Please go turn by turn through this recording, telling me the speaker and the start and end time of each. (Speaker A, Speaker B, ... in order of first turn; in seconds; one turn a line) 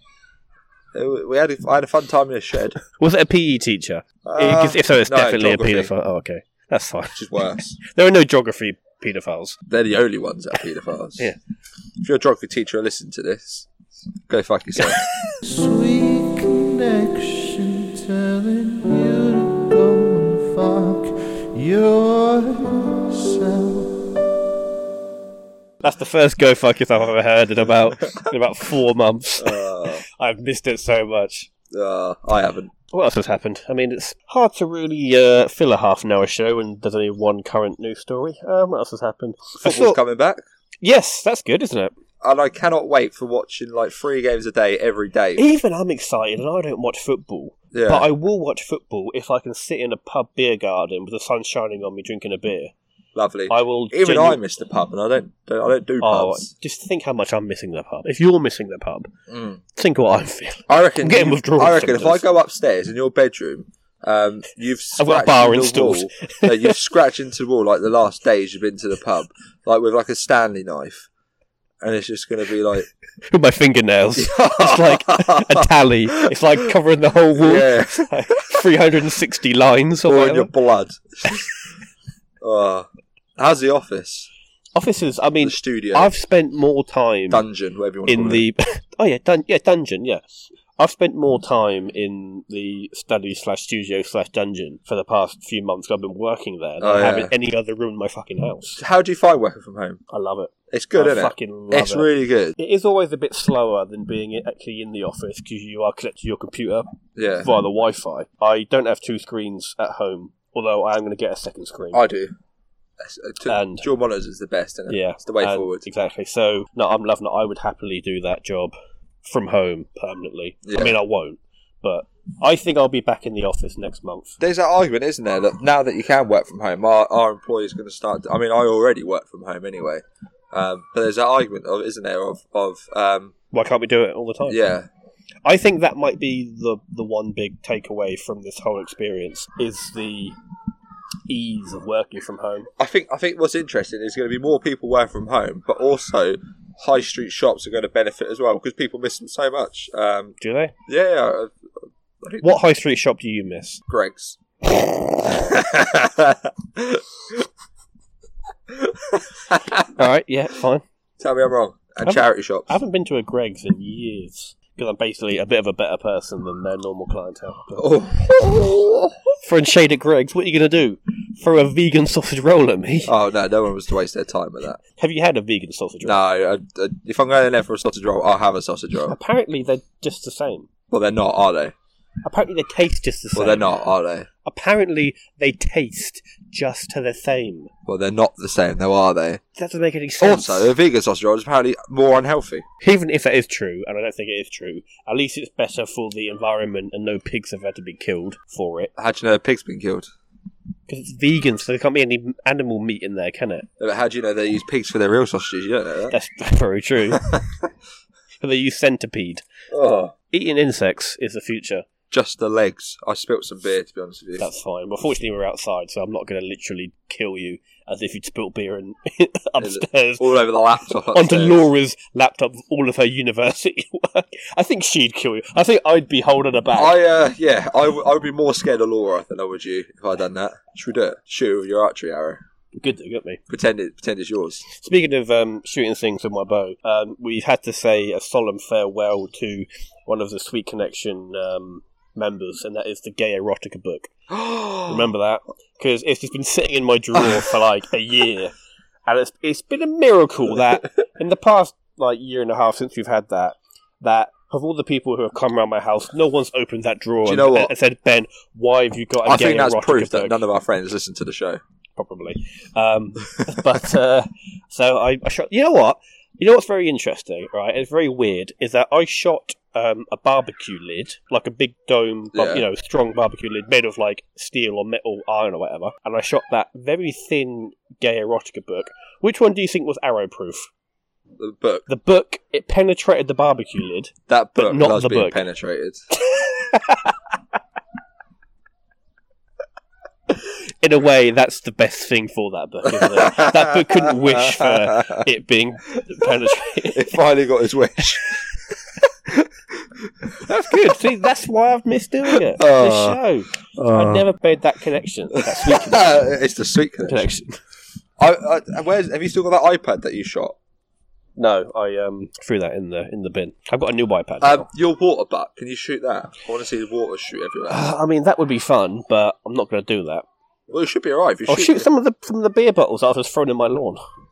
Speaker A: 0.9-2.8
Speaker B: 3.0-7.2
Speaker A: 4.2-5.9
Speaker A: 7.1-7.8
Speaker B: 7.8-9.6
Speaker A: 9.7-11.3
Speaker A: 12.0-13.7
Speaker A: 14.3-15.0
Speaker B: 14.8-15.3
Speaker C: 15.4-24.1
Speaker B: 25.8-31.5
Speaker A: 29.4-30.0
Speaker A: 31.7-32.7
Speaker B: 32.9-40.0
Speaker A: 39.6-40.4
Speaker B: 40.8-41.9
Speaker A: 42.2-45.4
Speaker B: 45.4-52.7
Speaker A: 47.7-48.1
Speaker A: 53.1-56.5
Speaker B: 53.5-54.4
Speaker B: 56.0-59.1
Speaker A: 59.3-59.6
Speaker B: 59.7-62.2
Speaker A: 60.7-71.1
Speaker B: 65.0-66.7
Speaker A: 71.8-72.9
Speaker B: 73.3-80.5
Speaker A: 74.2-75.7
Speaker A: 77.4-78.6
Speaker A: 80.1-81.5
Speaker A: 82.4-84.3
Speaker B: 84.8-87.4
Speaker A: 85.4-86.1
Speaker A: 87.3-88.5
Speaker B: 88.1-90.2
Speaker B: 90.8-98.8
Speaker A: 96.8-97.3
Speaker A: 98.8-100.0
Speaker B: 100.1-106.8
Speaker A: 100.7-102.5
Speaker A: 107.2-107.5
Speaker B: 107.4-112.0
Speaker A: 111.9-112.3
Speaker A: 113.0-115.8
Speaker B: 113.5-113.9
Speaker B: 114.9-124.4
Speaker A: 120.6-121.0
Speaker A: 124.4-133.3
Speaker B: 133.5-134.6
Speaker A: 134.5-134.9
Speaker B: 135.4-140.3
Speaker B: 141.3-142.7
Speaker A: 142.8-150.3
Speaker B: 150.4-150.7
Speaker A: 150.9-151.5
Speaker A: 152.2-152.6
Speaker B: 152.4-153.8
Speaker A: 153.9-157.4
Speaker A: 158.7-159.9
Speaker B: 159.9-160.8
Speaker A: 161.2-162.7
Speaker B: 162.0-168.0
Speaker A: 167.8-169.2
Speaker B: 169.4-173.1
Speaker A: 173.1-174.8
Speaker B: 175.0-176.2
Speaker A: 176.0-179.2
Speaker B: 179.1-180.7
Speaker A: 180.9-181.7
Speaker B: 182.2-183.8
Speaker A: 183.3-184.3
Speaker B: 184.4-187.7
Speaker A: 187.8-189.4
Speaker B: 189.6-190.7
Speaker A: 190.2-192.7
Speaker B: 192.8-198.9
Speaker A: 199.0-200.1
Speaker B: 200.9-203.7
Speaker A: 203.8-206.1
Speaker B: 206.1-207.2
Speaker A: 207.1-207.4
Speaker B: 208.4-209.4
Speaker A: 209.7-210.1
Speaker B: 210.3-211.8
Speaker A: 212.1-214.4
Speaker B: 214.4-220.3
Speaker A: 219.6-221.7
Speaker B: 221.1-227.0
Speaker A: 226.7-232.4
Speaker B: 232.7-233.4
Speaker A: 233.5-234.6
Speaker B: 234.7-244.1
Speaker A: 244.3-245.1
Speaker B: 244.8-248.5
Speaker A: 247.1-247.5
Speaker B: 249.1-260.4
Speaker A: 257.2-257.7
Speaker A: 259.2-261.6
Speaker B: 262.0-280.7
Speaker A: 272.3-272.6
Speaker A: 281.4-281.9
Speaker B: 281.9-285.4
Speaker A: 284.3-286.0
Speaker B: 286.1-287.2
Speaker B: 290.4-297.2
Speaker A: 292.9-295.2
Speaker A: 296.9-298.4
Speaker A: 299.3-300.9
Speaker B: 300.4-306.2
Speaker A: 302.3-303.2
Speaker A: 303.7-304.3
Speaker A: 305.4-307.3
Speaker B: 307.0-307.6
Speaker A: 308.2-310.6
Speaker B: 311.4-314.7
Speaker A: 314.4-317.9
Speaker B: 317.7-320.2
Speaker A: 320.7-321.9
Speaker B: 321.5-324.0